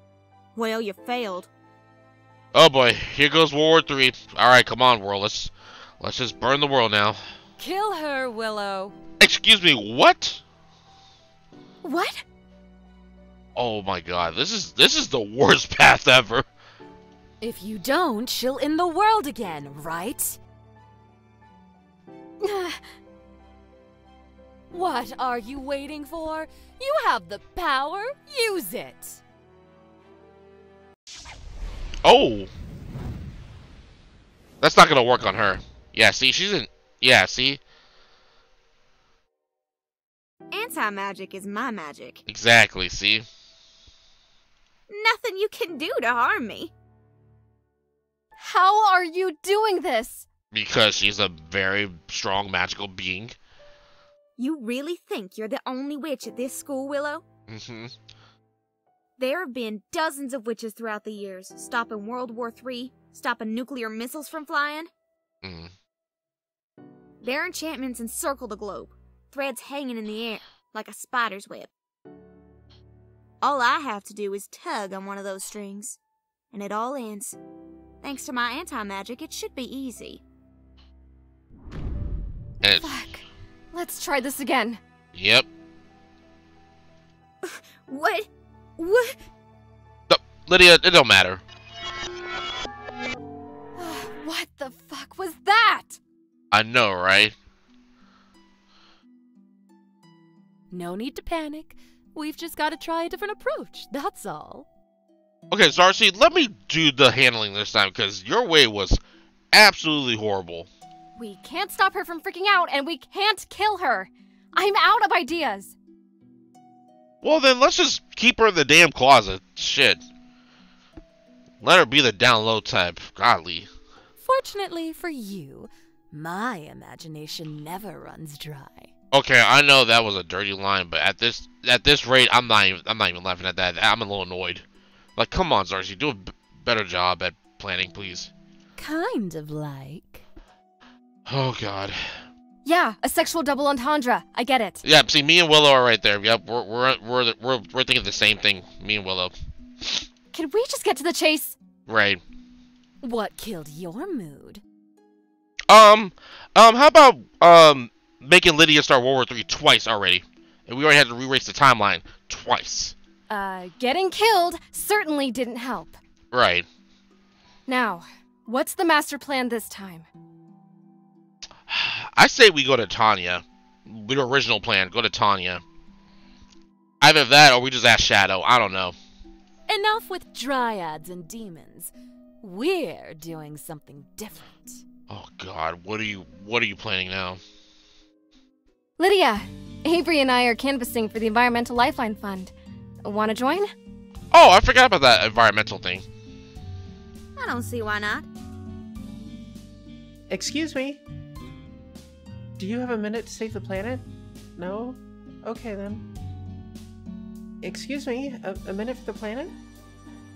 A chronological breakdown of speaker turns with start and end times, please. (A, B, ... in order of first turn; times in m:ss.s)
0:00.6-0:01.5 A
0:02.5-0:07.2 B
0:07.6-0:09.0 C
0:09.2-0:10.4 B
0:11.8-0:12.2 D
0:13.6-0:16.5 B
0:17.4-0:20.4 C
0:22.4-0:22.8 D
0:24.7-0:29.2 C
0:32.0-0:32.5 B
0:34.6-0:37.6 B
0:40.5-0:42.2 A
0:42.3-0:43.3 B
0:44.9-0:46.7 A
0:48.4-0:50.3 D
0:50.5-0:53.4 B
0:54.4-0:57.3 A
0:57.5-0:57.9 B
0:59.2-1:04.9 A
1:05.4-1:05.7 B
1:07.2-1:11.7 A
1:13.4-1:16.0 A
1:16.5-1:17.4 A
1:18.0-1:20.2 A
1:22.6-1:22.9 B
1:22.8-1:24.8 D
1:25.1-1:25.5 B
1:27.4-1:29.2 A
1:30.1-1:31.4 B
1:33.8-1:36.0 D
1:36.5-1:37.4 B
1:40.7-1:44.7 C
1:45.5-1:49.0 B
1:49.5-1:50.7 B
1:51.2-1:55.8 D
1:57.2-2:00.0 B
2:01.6-2:03.7 B
2:04.2-2:08.9 C
2:09.1-2:14.6 B
2:15.2-2:18.3 B
2:18.8-2:20.2 C
2:21.3-2:22.0 B
2:22.6-2:24.8 D
2:24.8-2:29.3 B
2:30.3-2:31.6 D
2:31.9-2:32.2 B
2:33.0-2:34.6 C
2:35.7-2:43.0 B
2:43.3-2:46.0 D
2:46.3-2:46.7 B
2:47.7-2:50.1 D
2:51.7-2:55.6 B
2:57.0-2:59.0 B
2:59.7-3:04.8 C
3:05.1-3:07.4 B
3:09.0-3:12.5 D
3:13.0-3:13.7 D
3:14.3-3:16.0 B
3:17.4-3:18.3 A
3:20.3-3:21.0 E
3:22.6-3:24.0 E
3:24.6-3:26.0 E
3:27.6-3:29.6 E